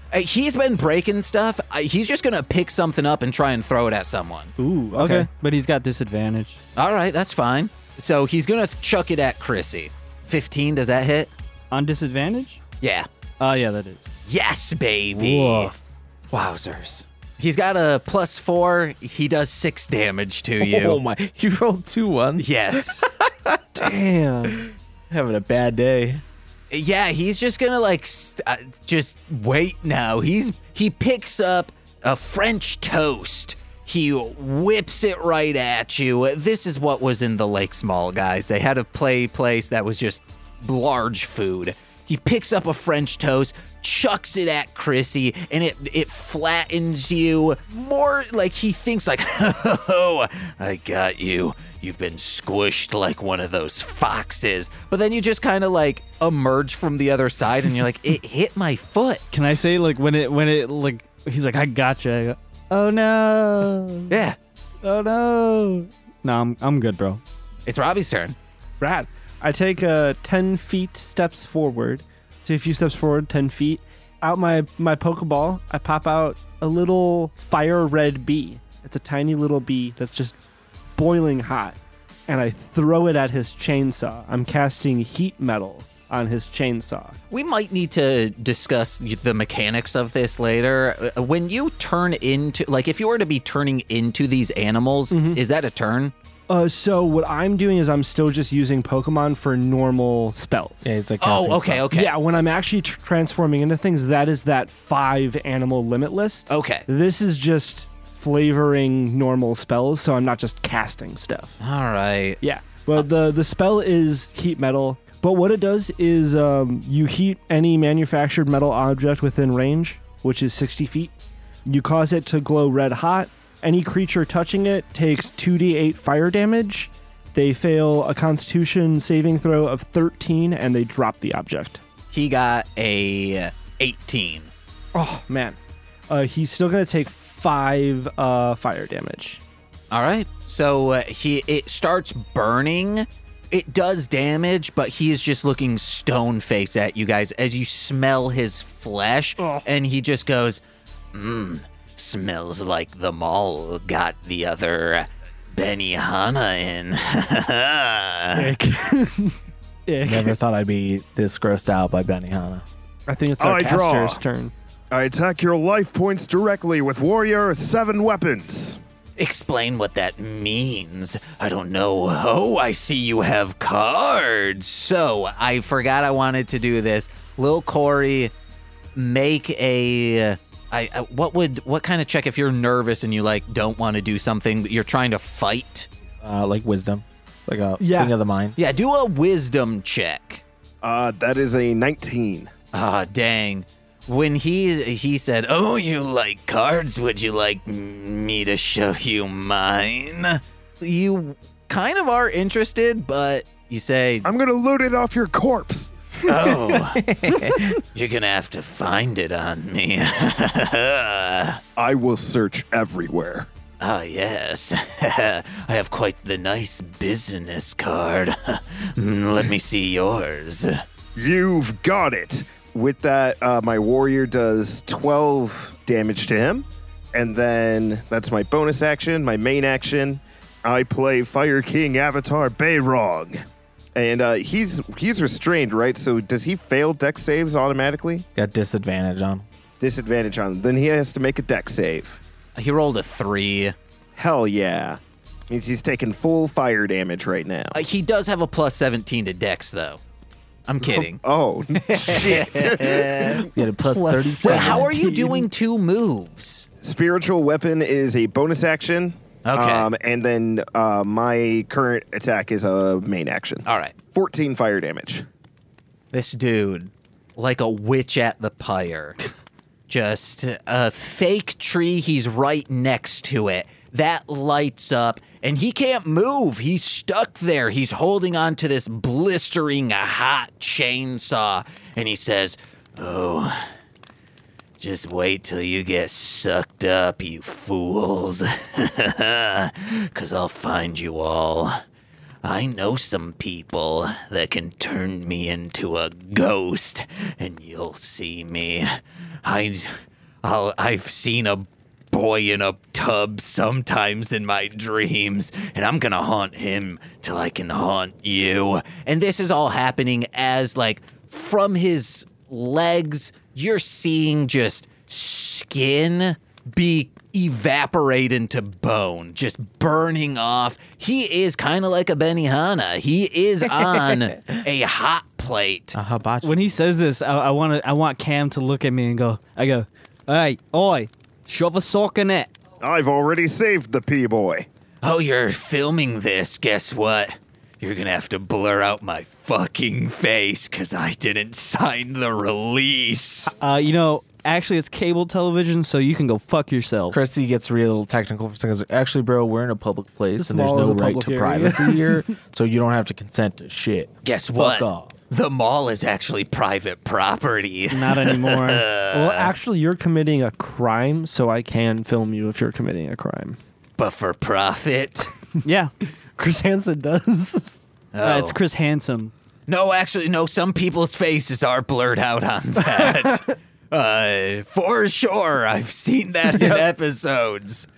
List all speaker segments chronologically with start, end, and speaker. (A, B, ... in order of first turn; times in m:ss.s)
0:00.1-0:04.5 A
0:04.6-0:05.3 B
0:05.0-0:06.6 C
0:06.8-0:11.3 A
0:11.7-0:12.6 C
0:12.8-0:13.1 A
0:13.4-0:14.1 C
0:14.3-0:15.8 A
0:15.2-0:15.7 C
0:16.3-0:21.0 A
0:20.6-0:23.9 D
0:22.4-0:23.1 A
0:23.8-0:24.6 B
0:24.4-0:26.2 D
0:26.7-0:59.2 A
0:59.3-1:04.1 C
1:04.1-1:04.4 A
1:04.8-1:07.2 C
1:07.7-1:08.4 A
1:08.8-1:20.4 B
1:21.0-1:21.8 B
1:22.3-1:27.2 B
1:27.3-1:36.1 A
1:35.1-1:35.4 B
1:36.5-1:40.9 B
1:40.8-1:41.9 D
1:41.2-1:42.1 A
1:41.9-1:51.6 B
1:46.5-1:46.8 A
1:51.6-1:52.4 A
1:52.4-2:01.1 B
2:01.7-2:11.8 B
2:12.1-2:14.5 A
2:14.9-2:15.6 B
2:16.1-2:19.4 B
2:19.9-2:30.6 A
2:29.4-2:29.6 B
2:31.1-2:38.5 A
2:38.4-2:40.4 B
2:40.0-2:42.6 D
2:43.1-2:44.5 B
2:43.4-2:44.2 E
2:44.9-2:48.8 E
2:49.2-2:58.3 A
2:59.0-3:05.9 A
3:06.2-3:08.6 D
3:07.8-3:08.1 B
3:08.6-3:10.4 A
3:10.8-3:12.5 E
3:12.7-3:24.3 A
3:24.2-3:26.3 E
3:26.2-3:27.3 A
3:27.0-3:27.8 D
3:27.8-3:31.6 A
3:31.8-3:33.5 E
3:33.8-3:40.8 A
3:41.2-3:53.4 E
3:54.0-3:58.3 E
3:58.4-3:59.5 D
3:59.8-4:02.2 E
4:02.6-4:03.8 A
4:04.2-4:07.8 E
4:07.7-4:10.0 A
4:10.7-4:11.2 A
4:10.8-4:13.4 E
4:11.8-4:13.5 A
4:13.5-4:15.0 D
4:13.6-4:15.5 B
4:14.4-4:16.7 A
4:16.8-4:25.2 E
4:19.4-4:19.9 A
4:23.6-4:24.0 A
4:26.1-4:29.2 A
4:29.9-4:43.7 A
4:44.8-4:51.8 A
4:52.4-5:26.0 A
5:23.8-5:24.4 D
5:25.9-5:26.6 D
5:26.4-5:32.5 C
5:32.8-5:34.7 E
5:35.0-5:43.5 A
5:43.6-5:47.2 C
5:47.1-5:55.1 D
5:50.4-5:52.2 B
5:54.2-5:59.5 A
5:57.9-5:58.8 C
5:59.1-6:03.6 B
6:04.0-6:05.3 A
6:05.6-6:05.9 C
6:06.4-6:07.8 B
6:08.1-6:08.6 A
6:08.2-6:09.3 C
6:09.7-6:17.9 A
6:16.5-6:16.8 B